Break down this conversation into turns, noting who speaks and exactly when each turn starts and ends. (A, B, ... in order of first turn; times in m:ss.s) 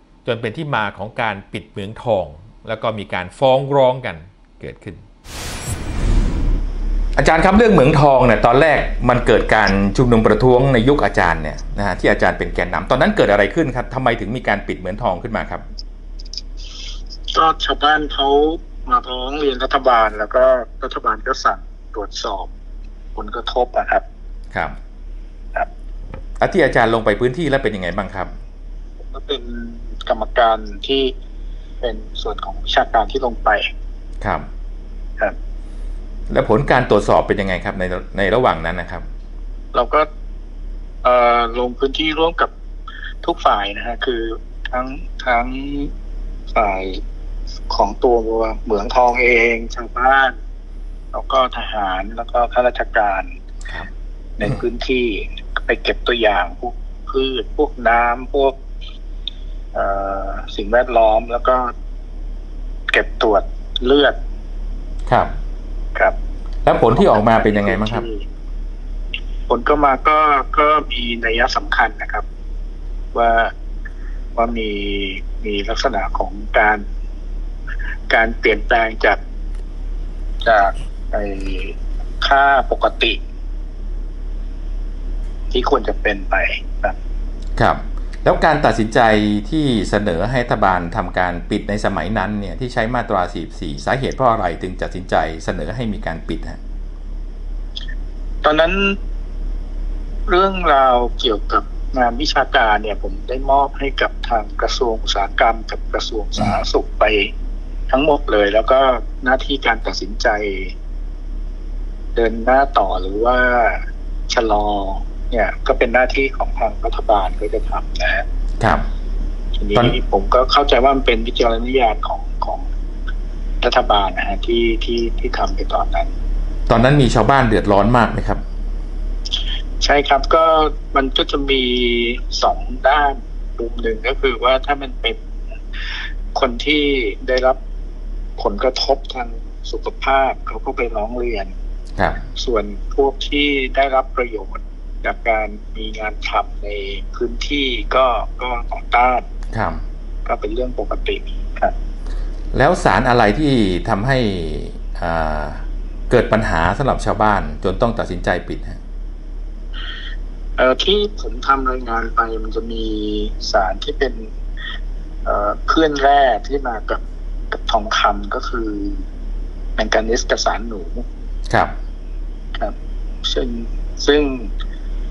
0:00.2-0:05.0 A
0:07.2-0:15.6 A
0:17.3-0:22.5 B
0:23.2-0:24.0 B
0:26.4-0:28.3 A
0:29.1-0:31.1 B
0:31.8-0:33.7 B
0:34.2-0:34.5 A
0:36.3-0:39.0 A
0:39.7-0:40.1 B
0:41.0-0:42.5 B
0:43.2-0:45.9 B
0:46.5-0:47.0 B
0:47.7-0:50.3 B
0:51.1-0:53.3 B
0:54.4-0:58.6 B
0:59.7-1:01.7 B
1:02.9-1:04.2 B
1:05.0-1:05.3 A
1:06.6-1:08.0 A
1:06.8-1:08.2 B
1:09.5-1:12.2 B
1:13.1-1:13.5 B
1:14.4-1:16.8 B
1:18.1-1:19.2 B
1:20.4-1:23.2 B
1:25.5-1:27.0 B
1:27.6-1:36.6 A
1:38.4-1:39.0 B
1:40.3-1:47.3 B
1:47.9-1:50.7 B
1:52.1-1:58.2 B
1:58.6-1:58.8 A
1:59.6-2:02.6 B
2:03.6-2:06.1 B
2:06.7-2:08.4 A
2:09.8-2:15.2 B
2:16.3-2:17.6 B
2:18.4-2:21.5 B
2:22.4-2:29.3 B
2:29.5-2:29.8 A
2:30.2-2:31.7 B
2:32.5-2:38.8 A
2:40.6-2:44.3 B
2:45.2-2:49.0 B
2:49.8-2:51.0 B
2:51.5-2:51.8 A
2:53.2-2:54.5 B